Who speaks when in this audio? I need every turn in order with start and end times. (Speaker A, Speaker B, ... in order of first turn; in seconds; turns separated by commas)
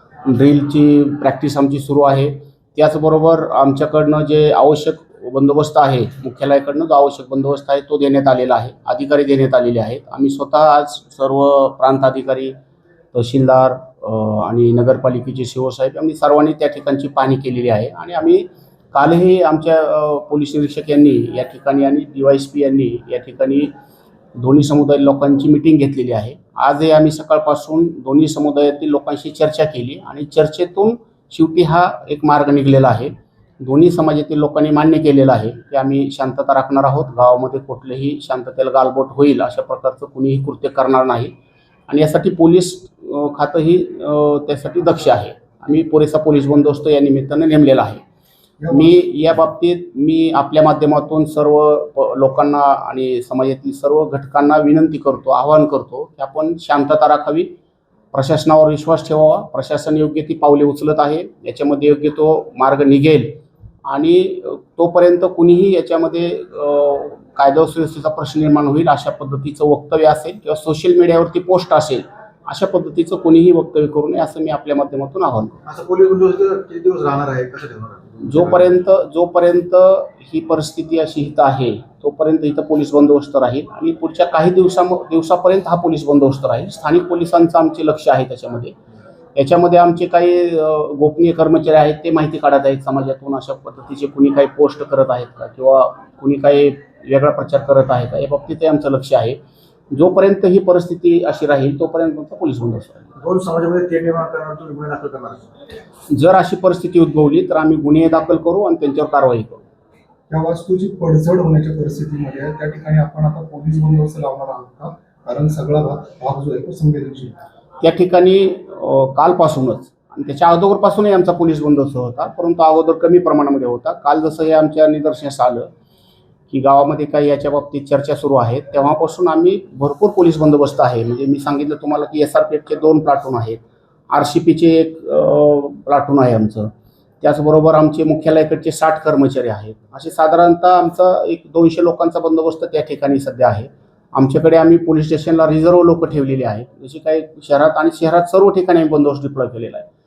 Speaker A: 0.2-12.5, Speaker A: 13.1-23.7, Speaker A: 24.4-41.3, Speaker A: 41.9-48.0, Speaker B: 48.6-49.0, Speaker A: 48.7-57.5, Speaker A: 58.1-75.6, Speaker C: 75.7-78.7, Speaker A: 78.2-88.8, Speaker A: 89.3-99.4, Speaker A: 99.9-103.1, Speaker C: 103.2-105.5, Speaker A: 106.1-109.6, Speaker B: 110.3-117.4, Speaker A: 117.8-125.7, Speaker A: 126.5-136.7, Speaker A: 137.2-149.9